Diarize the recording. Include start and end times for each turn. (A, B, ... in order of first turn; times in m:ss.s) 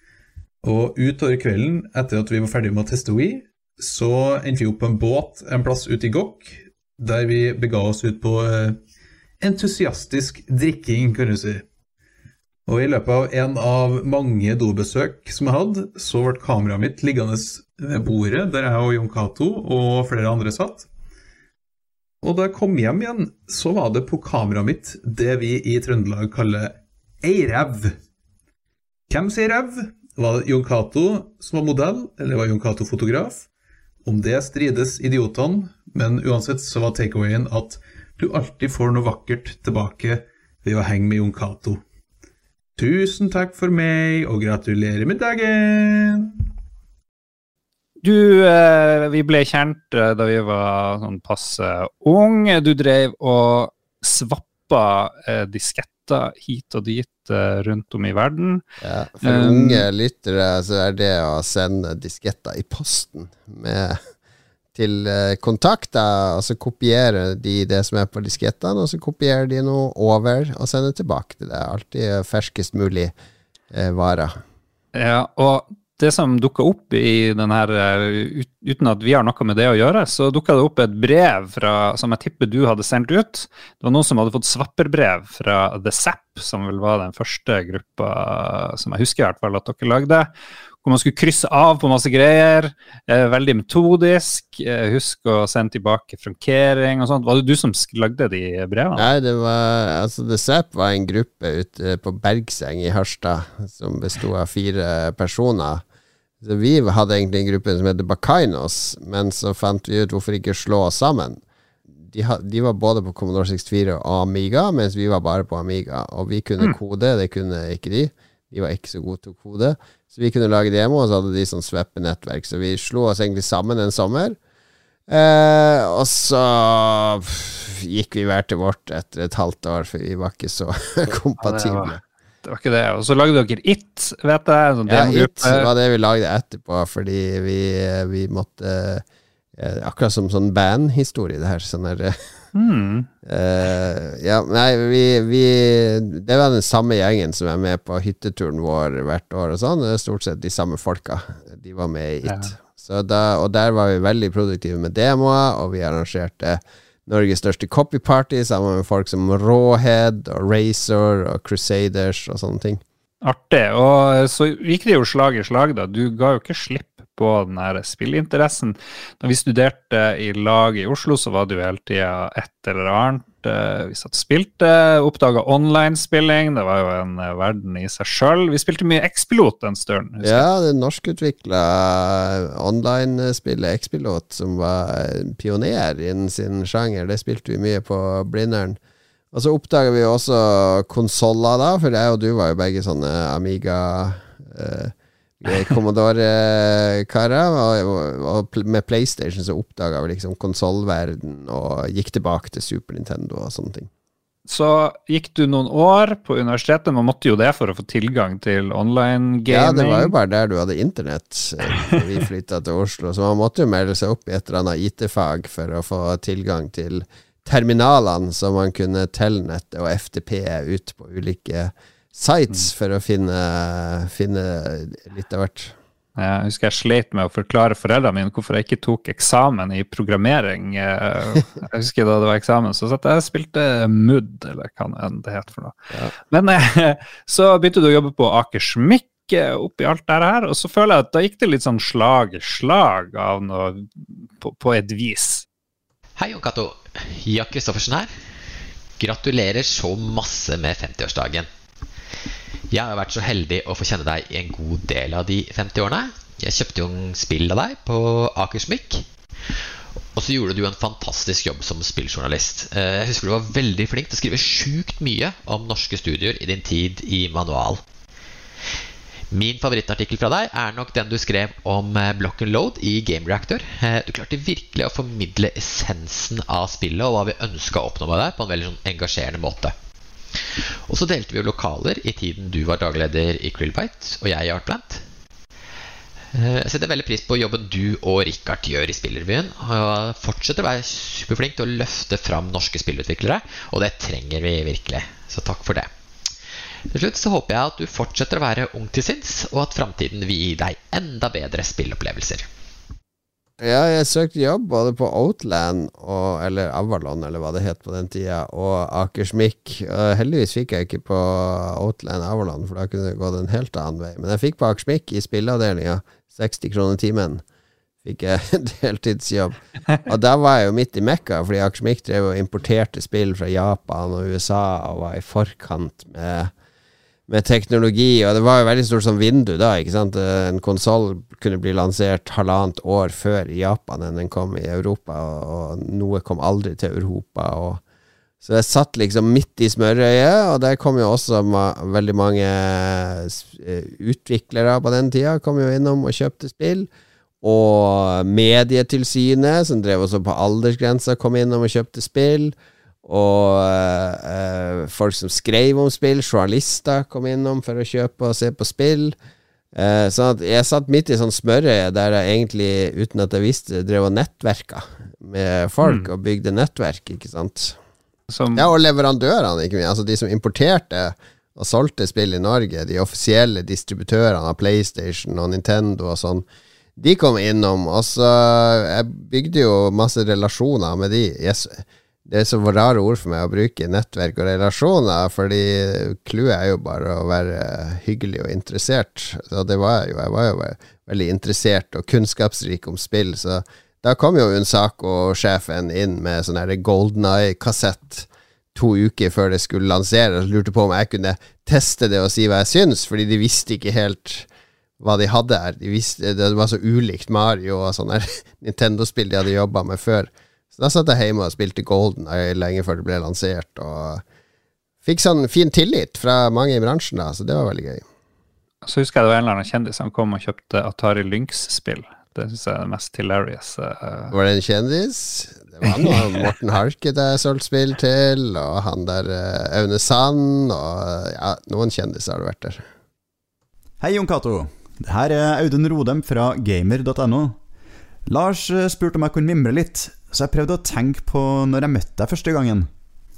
0:00.6-0:08.8 A
0:09.4-0:11.6 A
0:12.7-0:20.9 A
0:22.2-0:28.0 A
0:29.1-0:33.4 A
0:34.0-0:41.8 A
0:42.8-0:46.4 A
0:48.0-0:58.6 B
0:58.8-1:04.0 C
0:59.2-0:59.8 B
1:04.7-1:13.1 C
1:13.7-1:14.4 C
1:14.9-1:30.3 B
1:30.8-1:39.1 B
1:38.9-1:45.8 C
1:46.4-1:51.4 C
1:52.0-2:04.4 C
2:05.1-2:12.0 C
2:11.4-2:15.7 B
2:14.9-2:19.0 C
2:19.6-2:22.2 C
2:22.5-2:23.1 B
2:23.2-2:42.8 C
2:32.2-2:32.5 B
2:43.2-3:00.5 B
3:00.2-3:08.8 C
3:09.3-3:23.9 C
3:24.5-3:30.1 B
3:29.5-3:45.7 C
3:46.2-3:55.8 B
3:56.3-4:05.4 B
4:06.2-4:08.1 D
4:09.0-4:11.5 D
4:12.7-4:19.0 D
4:20.2-4:27.8 D
4:29.3-4:39.7 D
4:40.9-4:45.0 D
4:46.3-4:55.9 D
4:56.9-5:02.5 D
5:03.6-5:17.4 C
5:18.0-5:26.5 C
5:27.3-5:37.8 C
5:38.4-5:46.9 C
5:47.4-5:59.2 C
5:59.7-6:07.8 C
6:05.8-6:06.1 B
6:08.3-6:08.7 B
6:08.5-6:16.4 C
6:17.0-6:44.5 C
6:45.0-6:54.2 C
6:55.0-6:58.0 C
6:58.8-7:04.3 B
7:04.3-7:12.8 C
7:05.9-7:06.2 B
7:14.0-7:17.6 E
7:18.3-7:22.9 E